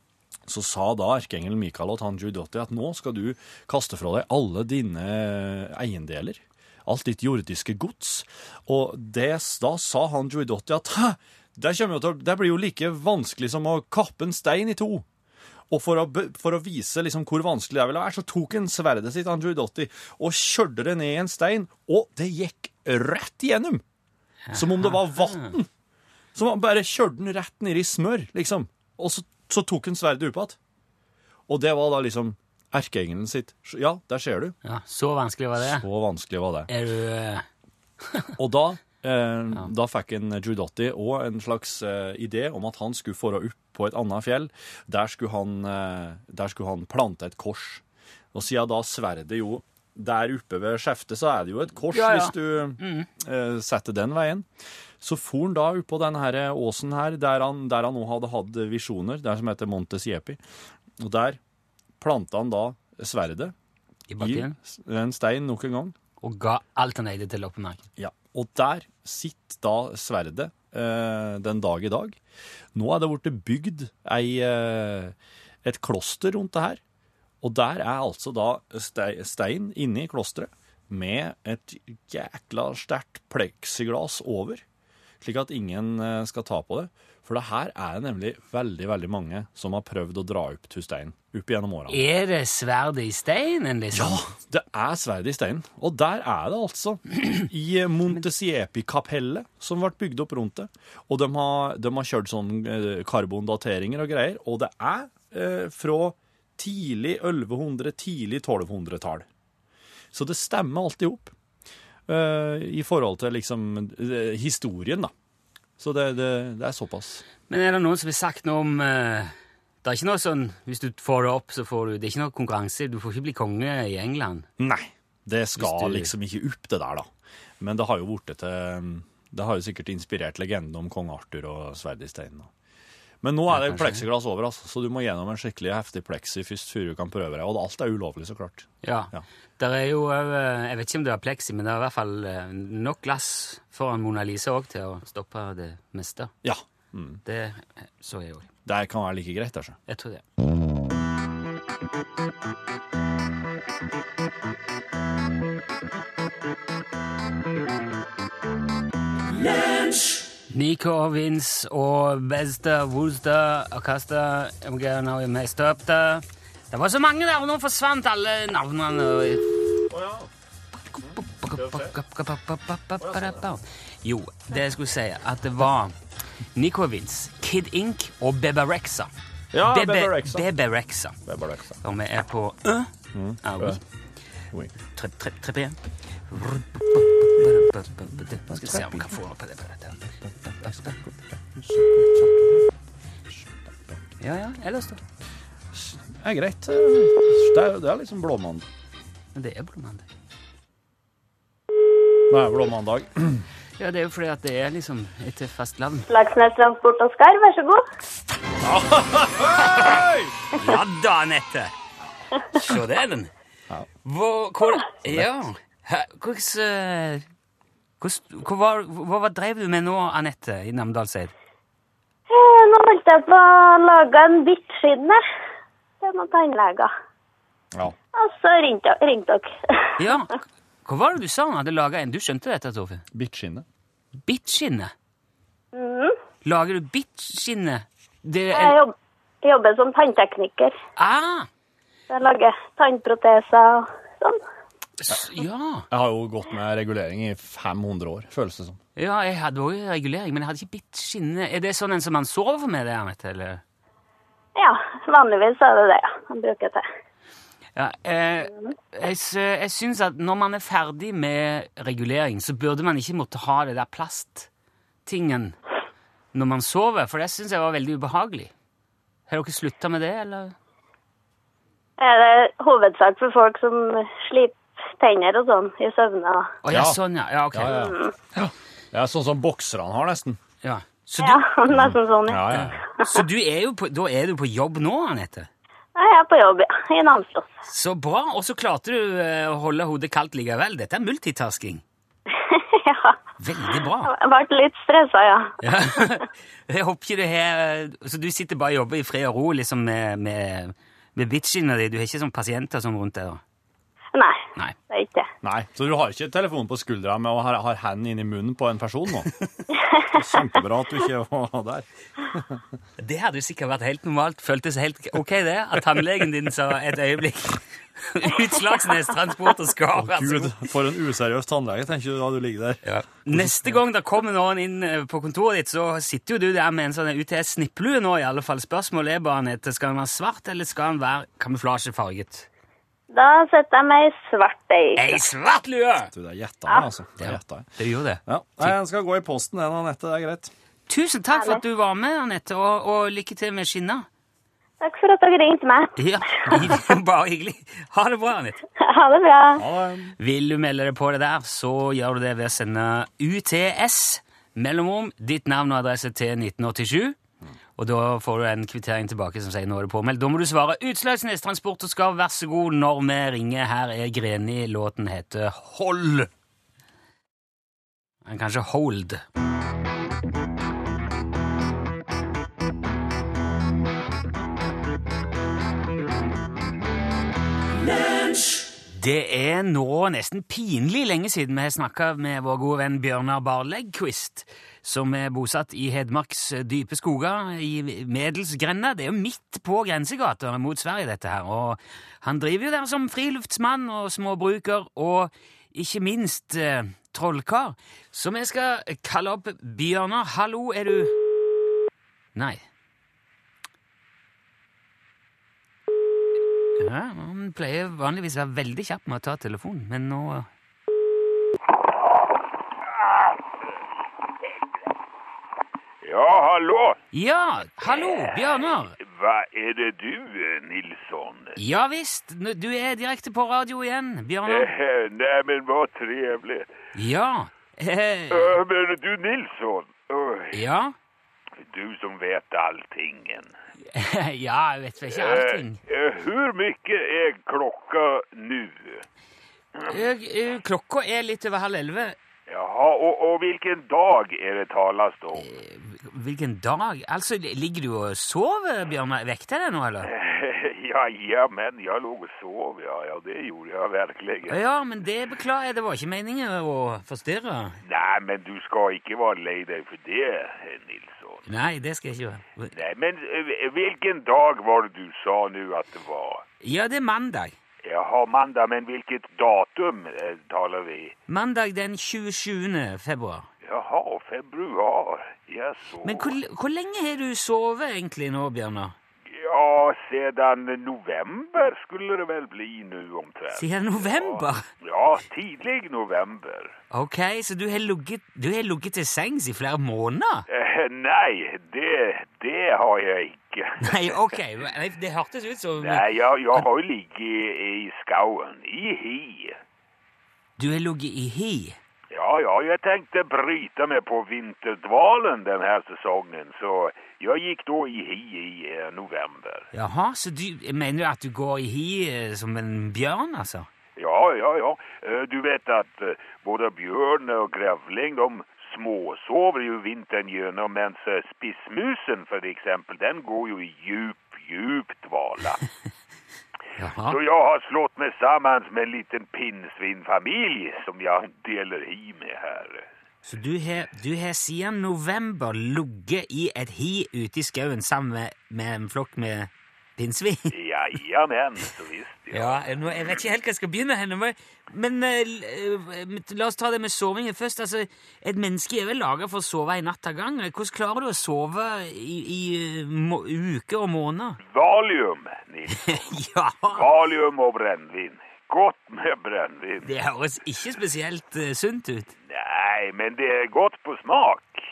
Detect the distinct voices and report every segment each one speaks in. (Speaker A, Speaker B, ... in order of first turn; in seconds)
Speaker A: 0.5-15.1, 15.7-23.8, 24.5-25.7, 26.4-30.6, 31.5-34.5, 35.6-36.7, 38.4-47.8, 48.3-54.5, 55.0-60.4, 61.0-61.4, 62.0-63.5, 64.2-66.0, 68.0-72.2, 72.8-76.8, 77.4-84.6, 85.2-92.0, 93.9-109.2, 110.1-111.3, 112.1-115.1, 115.8-117.2, 124.6-127.1, 127.6-132.5, 133.2-139.2, 146.4-147.2, 148.6-149.8, 169.9-170.3, 171.0-171.9, 173.0-173.4, 179.5-180.5, 181.2-181.8, 183.1-183.8, 188.5-189.1, 190.2-192.7, 193.3-194.0, 195.7-198.7, 202.3-203.4, 208.6-210.3, 215.0-215.3, 233.1-233.6, 245.9-248.8, 276.7-277.0, 277.5-280.4, 281.7-282.8, 305.4-309.3, 310.1-312.6, 319.9-323.8, 336.1-337.7, 338.2-340.5, 349.6-350.1
Speaker B: 24.5-25.5, 34.6-35.9, 36.7-37.5, 38.0-38.3, 51.9-53.1, 64.1-64.6, 66.2-67.8, 91.9-94.2, 117.5-124.5, 125.6-126.1, 133.5-134.1, 138.8-146.3, 147.2-148.5, 149.9-150.2, 160.5-169.6, 170.9-175.9, 176.5-179.1, 179.6-181.2, 181.8-183.8, 184.9-185.8, 186.3-190.1, 190.6-191.0, 194.2-195.0, 199.3-200.1, 203.8-206.1, 210.6-211.7, 212.5-213.3, 214.0-217.2, 218.0-221.3, 230.0-233.0, 234.2-234.9, 236.4-238.8, 241.0-241.5, 245.0-245.9, 249.0-253.6, 257.8-264.5, 265.1-265.6, 266.3-268.5, 269.3-270.6, 276.6-277.8, 280.6-281.4, 282.5-285.5, 287.7-291.8, 293.4-294.1, 295.6-303.4, 313.0-320.7, 322.8-332.5, 335.0-336.1, 337.2-338.8, 340.9-344.1, 346.0-348.6, 350.2-357.2, 357.8-366.3, 368.2-369.2, 378.9-401.1, 402.4-402.6, 406.8-410.5, 417.1-418.9, 421.6-424.7, 426.9-428.6, 430.5-430.9, 433.9-435.8, 439.9-442.2, 445.4-450.1, 454.5-457.8, 461.5-462.7, 466.6-467.6, 471.3-473.5, 476.0-478.9, 483.6-484.6, 486.9-490.4, 493.8-496.6, 500.6-501.8, 509.7-513.7, 526.8-527.2, 533.3-540.5, 542.3-554.4, 555.8-556.9, 559.9-562.1
Speaker C: 206.1-207.8, 222.3-225.2, 226.0-226.9, 228.1-229.9, 235.7-236.2, 238.5-240.7, 242.1-244.4, 254.6-256.8, 272.0-276.5, 277.7-278.1, 281.2-283.2, 286.0-287.5, 292.3-295.5, 304.1-305.3, 309.7-310.2, 333.1-335.2, 341.3-341.6, 344.8-346.8, 348.8-349.6
Speaker D: 416.0-417.0, 419.0-421.6, 424.4-426.7, 428.3-430.6, 431.6-433.5, 435.1-439.1, 442.5-445.5, 450.0-454.6, 457.8-461.4, 462.7-466.4, 467.8-471.1, 473.6-476.4, 479.3-486.8, 490.5-494.4, 495.8-499.6, 502.1-509.7, 514.0-525.6, 527.1-532.9, 540.5-543.1, 554.4-556.1, 556.7-559.9, 562.3-564.6